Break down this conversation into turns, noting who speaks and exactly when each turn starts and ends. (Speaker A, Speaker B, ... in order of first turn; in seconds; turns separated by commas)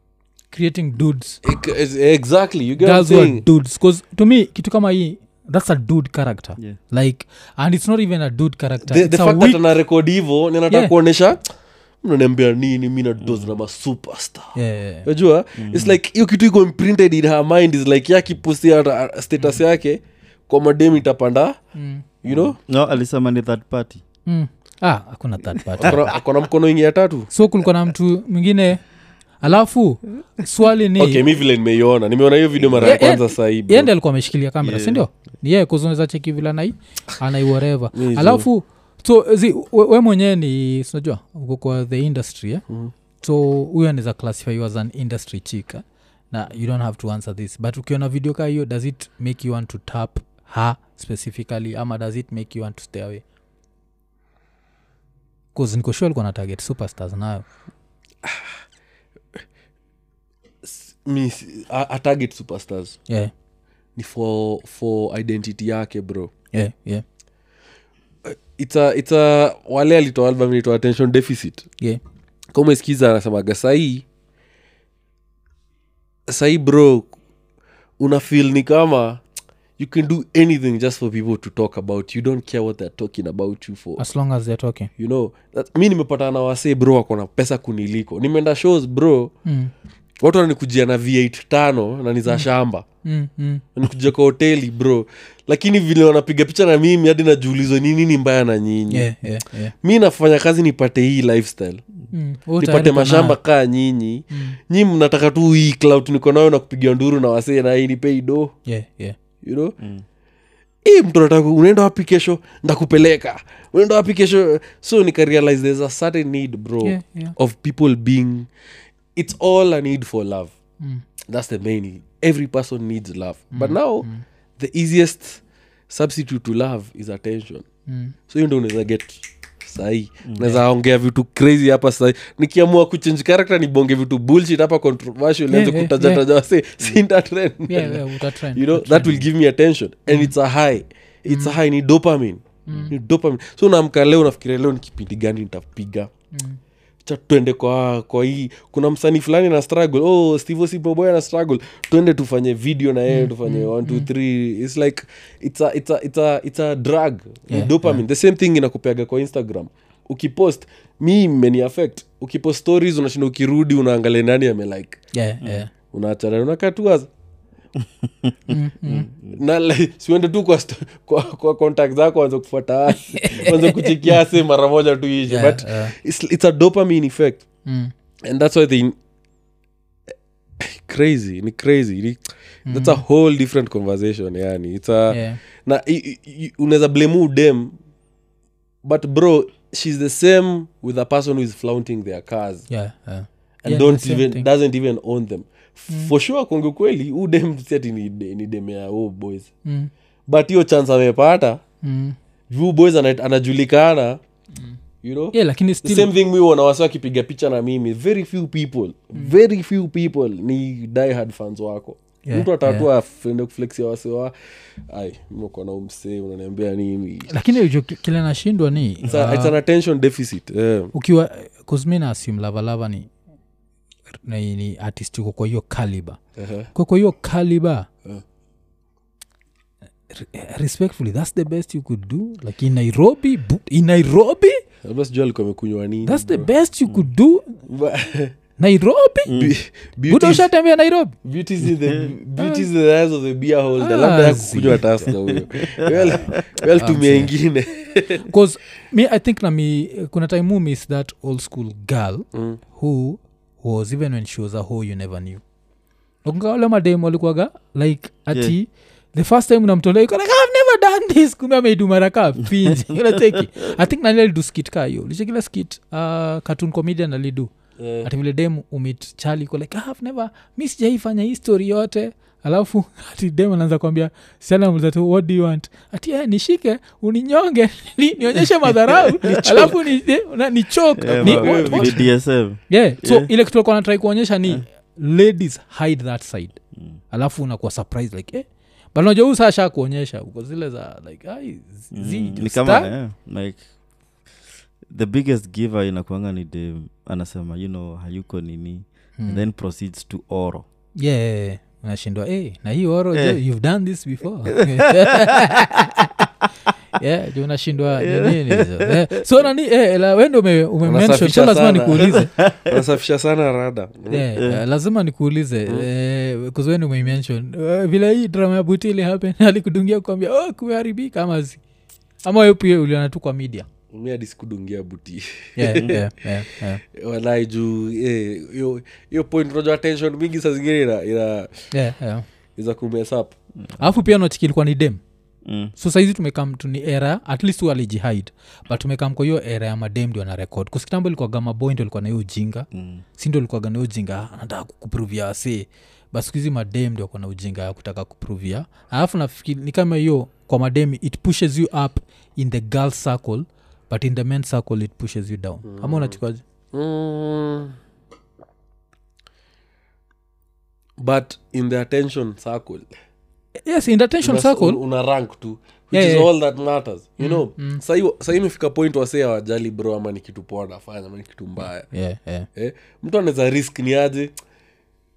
Speaker A: 0.5-1.4, Speaker B: 1.4-3.4, Speaker A: 2.8-9.6, Speaker B: 8.9-11.4, Speaker B: 12.0-21.6, Speaker C: 13.2-13.5, Speaker A: 14.5-15.1, Speaker C: 15.6-16.0, Speaker A: 21.7-22.1, Speaker B: 22.2-22.6, Speaker C: 22.3-24.0, Speaker A: 24.2-26.1, Speaker B: 25.8-27.3, Speaker C: 25.8-26.1, Speaker A: 27.3-28.8, Speaker A: 29.4-31.2, Speaker B: 31.0-33.9, Speaker A: 32.8-42.6, Speaker C: 34.6-35.0, Speaker B: 37.9-38.5, Speaker A: 43.2-53.2, Speaker A: 55.5-57.4, Speaker B: 58.2-58.5, Speaker B: 60.6-63.0, Speaker B: 64.0-66.3, Speaker A: 66.5-67.0, Speaker B: 68.2-71.7, Speaker B: 72.5-74.0, Speaker B: 76.3-77.1, Speaker B: 78.0-79.2, Speaker B: 79.8-84.0, Speaker A: 84.0-84.9, Speaker B: 85.0-89.3, Speaker A: 89.5-89.7, Speaker B: 90.2-92.8, Speaker A: 93.0-93.6, Speaker B: 93.8-99.1, Speaker A: 98.9-99.7, Speaker B: 99.8-101.8, Speaker A: 102.1-103.4, Speaker B: 102.6-108.5, Speaker A: 104.3-104.6, Speaker A: 108.7-109.2, Speaker B: 109.4-109.8, Speaker C: 109.8-110.0, Speaker B: 110.8-118.5, Speaker A: 116.8-117.3, Speaker B: 119.2-120.5, Speaker B: 121.3-124.1, Speaker A: 123.5-124.2, Speaker B: 124.6-127.7, Speaker A: 127.9-128.1, Speaker B: 128.3-146.1, Speaker A: 135.5-136.2, Speaker A: 137.7-139.3, Speaker A: 140.1-140.3, Speaker A: 141.3-141.6, Speaker A: 142.7-142.9, Speaker A: 146.3-146.6, Speaker B: 147.0-165.0, Speaker A: 153.1-154.1, Speaker A: 157.5-158.0, Speaker A: 165.1-165.7, Speaker B: 165.9-167.1, Speaker C: 167.8-169.3, Speaker A: 168.5-169.1, Speaker B: 169.3-177.4, Speaker A: 173.1-174.2, Speaker A: 175.3-175.9, Speaker A: 177.7-177.9, Speaker B: 178.2-178.9, Speaker B: 180.6-187.7, Speaker A: 182.7-183.0, Speaker A: 185.1-185.4, Speaker B: 188.8-192.7, Speaker A: 192.7-194.4, Speaker B: 193.6-199.5, Speaker A: 199.6-199.9, Speaker B: 200.3-201.6, Speaker A: 201.8-202.2, Speaker B: 202.5-204.2, Speaker B: 205.0-214.3, Speaker A: 205.3-206.1, Speaker A: 212.2-212.9, Speaker B: 214.9-217.3, Speaker A: 217.3-219.6, Speaker B: 219.0-220.9, Speaker A: 220.9-223.1, Speaker A: 224.2-226.2, Speaker B: 226.4-226.7, Speaker A: 226.7-227.9, Speaker A: 230.1-234.6, Speaker B: 234.8-236.5, Speaker A: 236.0-237.6, Speaker B: 237.7-238.3, Speaker A: 238.6-239.3, Speaker C: 239.3-239.6, Speaker B: 239.3-240.5, Speaker A: 240.1-241.1, Speaker B: 241.2-248.3, Speaker C: 241.7-242.1, Speaker A: 242.4-242.7, Speaker A: 243.8-244.8, Speaker C: 245.1-246.6, Speaker A: 246.7-247.3, Speaker A: 248.2-255.4, Speaker B: 252.3-252.6, Speaker A: 256.2-267.5, Speaker C: 262.7-263.2, Speaker B: 267.8-268.1, Speaker A: 268.0-282.1, Speaker C: 279.2-279.7, Speaker B: 279.4-279.7, Speaker C: 281.0-283.3, Speaker B: 281.1-282.0, Speaker A: 282.7-286.6, Speaker A: 287.1-292.9, Speaker C: 291.9-293.6, Speaker C: 294.9-300.6, Speaker A: 301.0-306.3, Speaker C: 303.1-303.4, Speaker C: 304.6-305.5, Speaker A: 307.0-312.3, Speaker C: 308.0-308.9, Speaker B: 310.8-314.2, Speaker C: 312.3-312.8, Speaker A: 314.1-321.6, Speaker C: 314.4-314.6, Speaker A: 322.2-323.7, Speaker B: 323.9-326.0, Speaker A: 325.6-326.8, Speaker B: 326.8-331.7, Speaker A: 331.7-332.2, Speaker B: 332.6-333.3, Speaker A: 333.8-335.0, Speaker C: 335.4-335.7, Speaker A: 335.8-356.4, Speaker C: 342.7-343.0, Speaker B: 355.6-356.2, Speaker B: 356.7-357.7, Speaker B: 361.0-362.9, Speaker A: 363.6-364.8, Speaker B: 364.2-371.9, Speaker A: 365.9-366.3, Speaker A: 367.2-367.8, Speaker A: 371.9-372.5, Speaker B: 372.5-374.3